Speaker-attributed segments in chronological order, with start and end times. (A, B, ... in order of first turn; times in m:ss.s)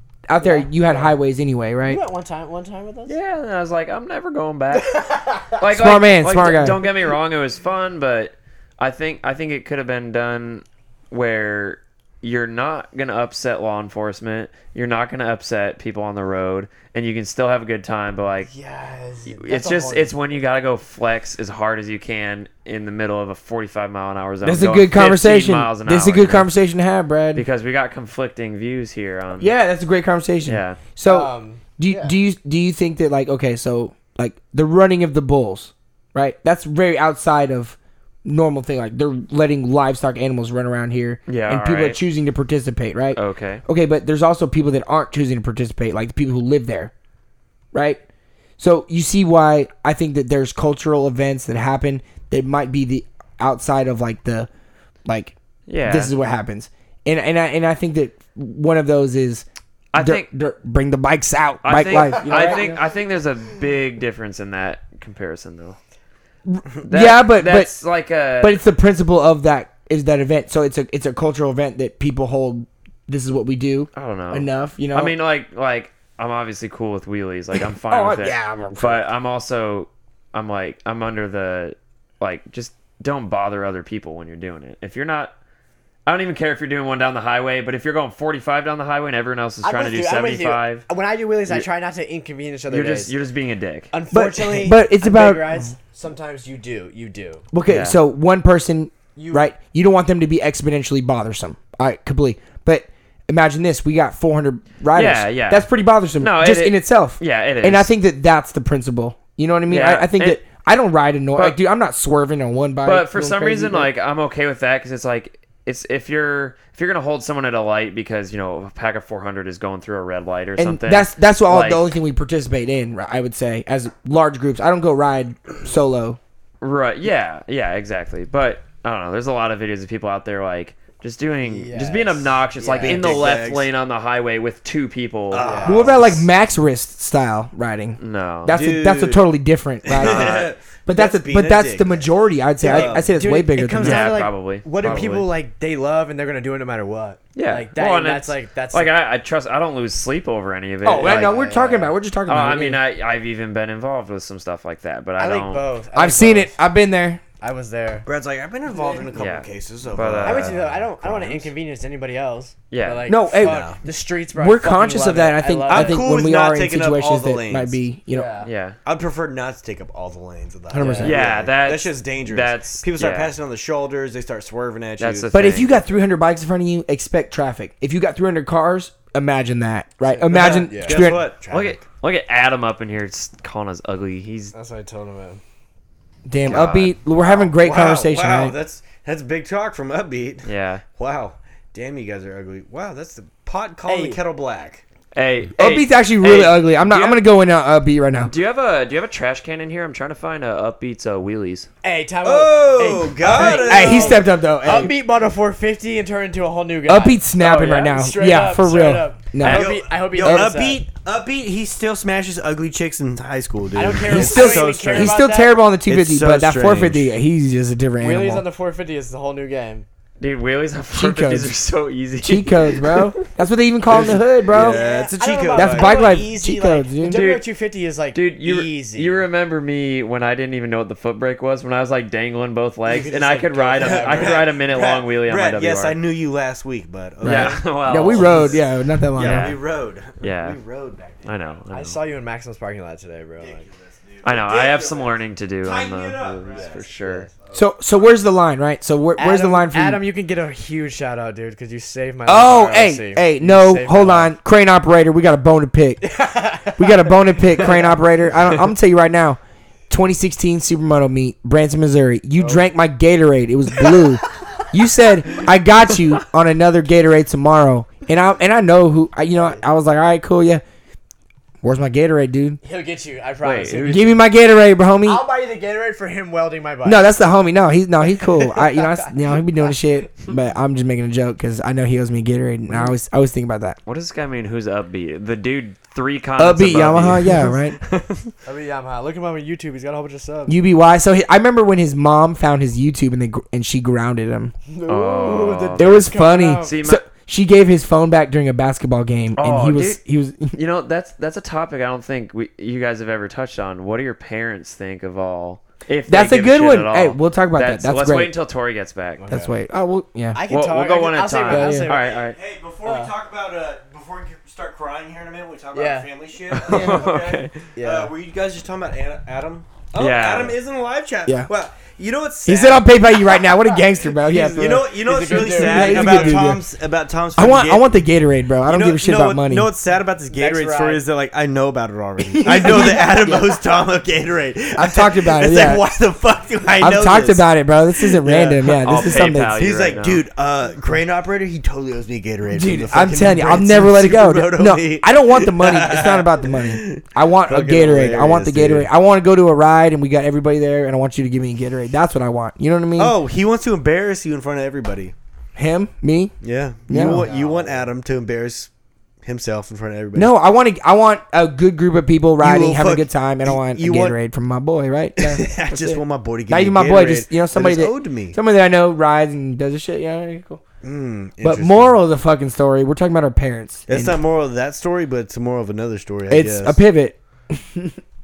0:00.3-0:02.0 A
0:00.4-0:01.2 B
0:01.8-0:03.1 B
0:03.0-0:05.0 C
0:04.7-0:05.6 B
0:05.5-0:18.5 C
0:05.6-0:06.8 A
0:18.5-0:20.2 B
0:19.3-0:26.5 C
0:24.4-0:27.4 A
0:27.3-0:29.5 C
0:29.4-0:46.9 A
0:30.4-0:30.8 C
0:31.0-0:32.2 B
0:41.3-0:42.0 C
0:43.1-0:43.6 C
0:47.7-0:48.0 A
0:48.6-0:54.5 A
0:55.0-0:55.3 A
0:55.7-0:56.1 C
0:55.8-1:02.8 A
0:59.9-1:00.3 C
1:01.6-1:05.8 C
1:02.0-1:02.8 B
1:06.4-1:07.8 A
1:06.8-1:08.6 C
1:08.4-1:15.1 A
1:13.9-1:25.3 C
1:17.8-1:19.0 A
1:26.0-1:30.8 C
1:29.6-1:33.1 B
1:32.7-1:33.9 C
1:33.9-1:37.4 B
1:34.1-1:35.6 A
1:37.5-1:53.9 A
1:37.7-1:38.0 C
1:39.1-1:39.5 B
1:44.9-1:47.9 C
1:49.7-1:50.4 C
1:52.8-2:01.9 C
2:00.6-2:06.2 A
2:06.6-2:15.7 C
2:11.4-2:13.4 B
2:12.8-2:13.7 D
2:15.3-2:16.3 D
2:15.4-2:16.0 B
2:15.6-2:24.2 A
2:18.0-2:18.6 C
2:18.5-2:19.3 D
2:19.8-2:22.1 D
2:19.9-2:20.5 C
2:22.6-2:23.1 D
2:22.6-2:28.9 B
2:23.8-2:25.3 C
2:27.3-2:31.4 C
2:30.8-2:32.8 A
2:30.9-2:31.9 B
2:32.2-2:35.7 C
2:35.2-2:36.6 B
2:35.9-2:37.2 A
2:37.4-2:38.1 B
2:38.0-2:41.5 D
2:38.7-2:39.2 B
2:39.2-2:40.6 C
2:40.2-2:46.1 B
2:42.7-2:43.1 C
2:43.1-2:43.7 A
2:43.4-2:43.8 D
2:44.3-2:48.3 A
2:45.7-2:47.8 D
2:48.1-2:48.5 B
2:48.4-2:48.8 C
2:48.8-2:55.6 D
2:50.7-2:51.1 A
2:50.7-2:51.2 B
2:51.0-2:53.3 C
2:55.0-2:55.8 C
2:55.3-3:01.2 A
3:00.0-3:01.0 B
3:00.3-3:01.8 D
3:01.5-3:04.5 C
3:04.5-3:05.4 B
3:06.2-3:08.5 A
3:06.4-3:06.9 C
3:06.4-3:14.8 D
3:10.4-3:10.8 C
3:13.8-3:14.2 B
3:15.1-3:17.2 C
3:15.6-3:18.3 A
3:18.2-3:21.7 C
3:21.8-3:30.8 B
3:22.2-3:24.2 D
3:23.2-3:24.9 A
3:26.9-3:29.7 A
3:27.4-3:27.8 C
3:29.4-3:29.7 C
3:29.4-3:35.2 D
3:30.2-3:30.5 A
3:33.7-3:35.6 B
3:34.1-3:38.4 A
3:35.8-3:37.2 D
3:38.0-3:39.8 B
3:40.2-3:43.1 C
3:40.9-3:41.5 A
3:42.2-3:44.8 A
3:43.9-3:46.3 D
3:44.5-3:49.2 B
3:45.5-3:47.2 A
3:47.0-3:47.4 C
3:48.1-3:56.0 C
3:52.9-3:54.5 B
3:53.7-3:58.6 D
3:57.2-3:58.6 C
3:57.2-3:59.6 A
3:59.2-4:01.4 D
3:59.2-3:59.6 C
4:00.2-4:00.6 C
4:01.2-4:02.0 C
4:01.7-4:03.7 B
4:03.4-4:06.8 D
4:04.2-4:07.3 C
4:06.5-4:07.3 B
4:07.4-4:07.7 D
4:07.5-4:10.0 A
4:09.2-4:14.3 B
4:12.2-4:16.2 A
4:16.0-4:18.0 B
4:16.7-4:30.6 A
4:22.4-4:22.6 B
4:31.6-4:32.6 A
4:32.6-4:34.2 B
4:33.4-4:34.1 C
4:33.8-4:35.2 A
4:35.0-4:37.1 B
4:36.8-4:43.8 A
4:43.8-4:48.2 C
4:46.4-4:47.8 A
4:48.4-4:50.6 B
4:50.5-4:54.5 A
4:54.7-4:56.8 B
4:54.8-4:57.0 C
4:55.8-5:00.6 A
4:59.4-5:00.0 C
5:00.5-5:09.3 C
5:06.1-5:08.3 A
5:09.2-5:09.5 B
5:09.3-5:10.4 A
5:10.3-5:12.2 B
5:10.5-5:12.4 C
5:11.5-5:11.9 A
5:12.0-5:22.9 D
5:12.8-5:13.1 B
5:15.7-5:16.1 B
5:16.5-5:17.6 C
5:16.7-5:17.1 B
5:17.7-5:18.1 B
5:20.0-5:20.6 C
5:22.4-5:26.6 A
5:24.2-5:28.0 D
5:24.4-5:26.5 B
5:27.4-5:29.7 A
5:28.6-5:48.9 D
5:30.3-5:31.0 B
5:32.3-5:33.5 A
5:34.8-5:35.8 A
5:36.8-5:39.6 A
5:38.8-5:40.2 C
5:42.5-5:53.2 A
5:53.0-5:55.1 D
5:55.6-5:56.3 A
5:56.4-5:58.7 D
5:56.9-5:57.3 A
5:56.9-5:57.9 B
5:59.2-6:00.3 D
6:00.1-6:10.6 A
6:02.4-6:04.2 D
6:05.2-6:08.4 D
6:10.8-6:12.0 D
6:11.4-6:14.2 A
6:13.9-6:16.8 D
6:16.3-6:18.0 A